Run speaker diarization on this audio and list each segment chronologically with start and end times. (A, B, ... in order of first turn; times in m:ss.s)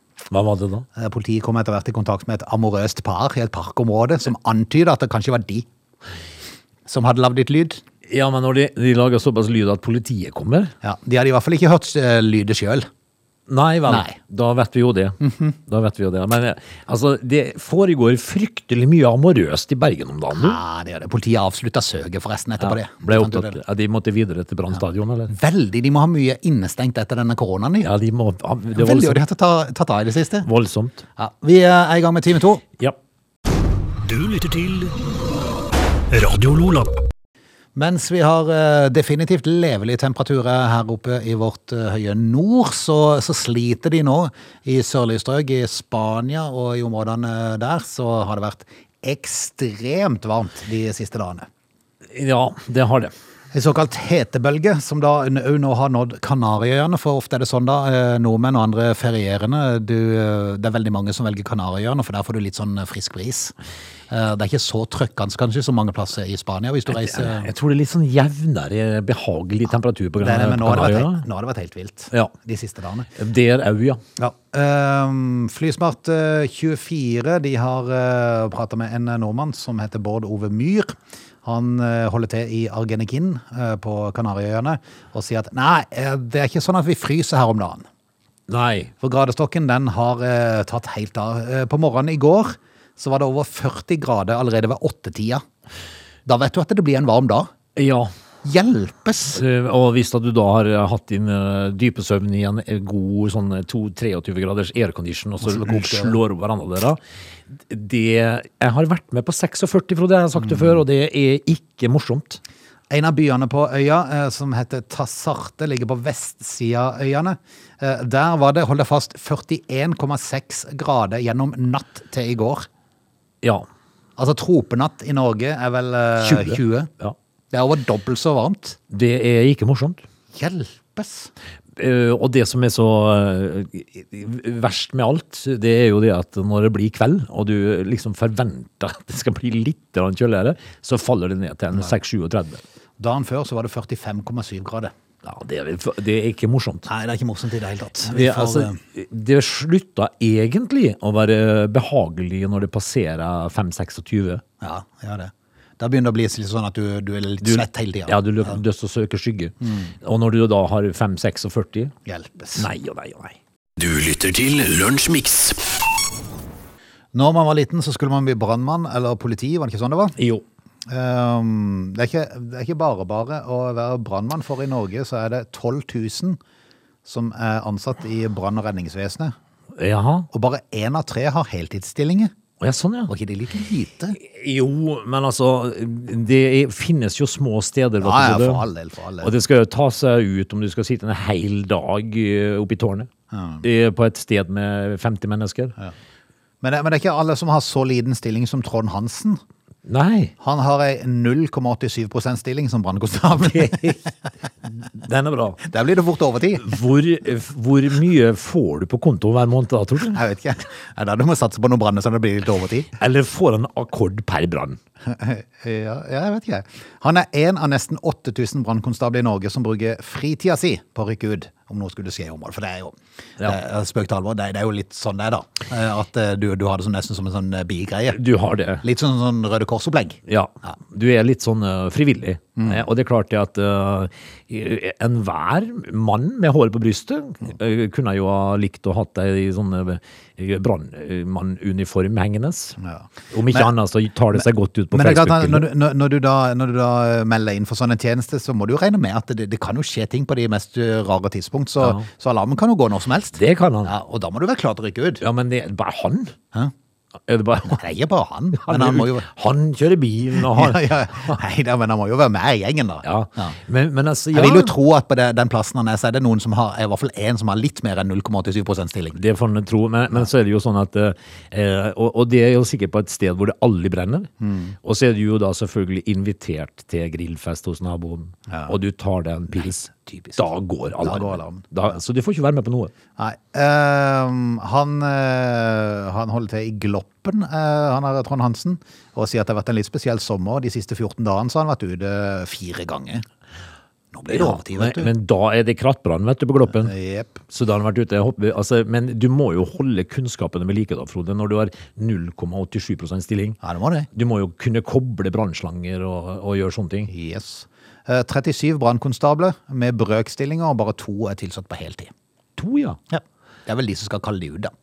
0:00.3-0:00.9 A
0:00.9-0:05.6 B
0:06.9-0:07.8 B
0:08.1-0:10.7 A
0:10.8-0:12.9 B
0:13.5-0:20.6 A
0:13.9-0:14.2 B
0:15.2-0:15.5 B
0:20.3-0:23.6 B
0:22.6-0:25.3 A
0:25.3-0:27.9 B
0:27.8-0:29.2 A
0:28.7-0:30.5 B
0:30.4-0:31.0 A
0:31.2-0:32.6 B
0:34.0-0:35.0 C
0:36.1-0:36.9 C
0:37.7-0:51.5 B
0:52.1-0:53.1 A
0:53.5-1:03.5 B
1:04.1-1:07.5 B
1:06.9-1:11.2 A
1:10.2-1:13.1 B
1:13.1-1:14.0 A
1:14.2-1:27.8 B
1:28.5-1:28.9 A
1:29.0-1:35.4 B
1:36.2-1:37.5 B
1:37.7-1:38.1 A
1:38.4-1:39.4 B
1:39.3-1:47.0 A
1:45.4-1:46.2 B
1:47.5-1:52.4 A
1:52.9-2:02.7 B
2:03.4-2:03.7 A
2:04.2-2:06.9 B
2:06.2-2:07.2 A
2:07.5-2:08.8 B
2:08.9-2:10.0 A
2:10.3-2:11.3 B
2:11.8-2:22.6 A
2:23.0-2:24.9 B
2:25.2-2:26.9 A
2:26.8-2:28.8 B
2:28.0-2:34.4 A
2:34.6-2:38.6 B
2:37.4-2:41.9 A
2:39.6-2:39.9 B
2:42.0-2:42.7 B
2:42.6-2:43.4 A
2:43.8-2:45.6 C
2:47.1-2:50.2 B
2:50.2-2:50.4 A
2:50.9-2:56.4 B
2:57.0-2:59.3 B
2:59.8-3:00.3 A
3:00.3-3:02.3 B
3:02.6-3:03.1 A
3:03.1-3:04.2 B
3:04.2-3:08.6 A
3:08.0-3:09.3 B
3:09.2-3:13.1 A
3:13.3-3:13.6 B
3:13.6-3:15.7 A
3:16.6-3:19.4 B
3:19.8-3:20.3 A
3:20.4-3:24.1 B
3:23.4-3:24.0 A
3:24.8-3:25.6 A
3:25.6-3:26.8 B
3:26.6-3:30.2 A
3:30.1-3:32.9 B
3:33.0-3:34.8 A
3:35.1-3:48.2 B
3:48.1-3:48.8 A
3:48.8-3:50.7 B
3:50.3-4:02.8 A
3:52.6-3:52.8 B
4:02.8-4:03.7 B
4:03.3-4:05.7 A
4:04.3-4:15.2 B
4:11.8-4:12.0 A
4:13.3-4:13.9 A
4:15.2-4:16.4 A
4:17.3-4:17.8 A
4:17.6-4:19.3 B
4:18.6-4:21.4 A
4:20.3-4:23.6 B
4:23.0-4:24.7 A
4:24.3-4:29.2 B
4:29.2-4:34.3 A
4:34.4-4:34.8 B
4:34.8-4:42.9 A
4:38.5-4:38.7 B
4:40.0-4:40.4 B
4:41.0-4:41.7 B
4:43.2-4:53.2 B
4:54.1-4:55.1 B
4:54.3-4:56.9 A
4:56.8-4:57.4 B
4:57.5-5:03.6 A
5:03.6-5:04.1 B
5:04.1-5:07.1 A
5:07.1-5:12.1 B
5:12.6-5:13.0 A
5:13.1-5:14.7 B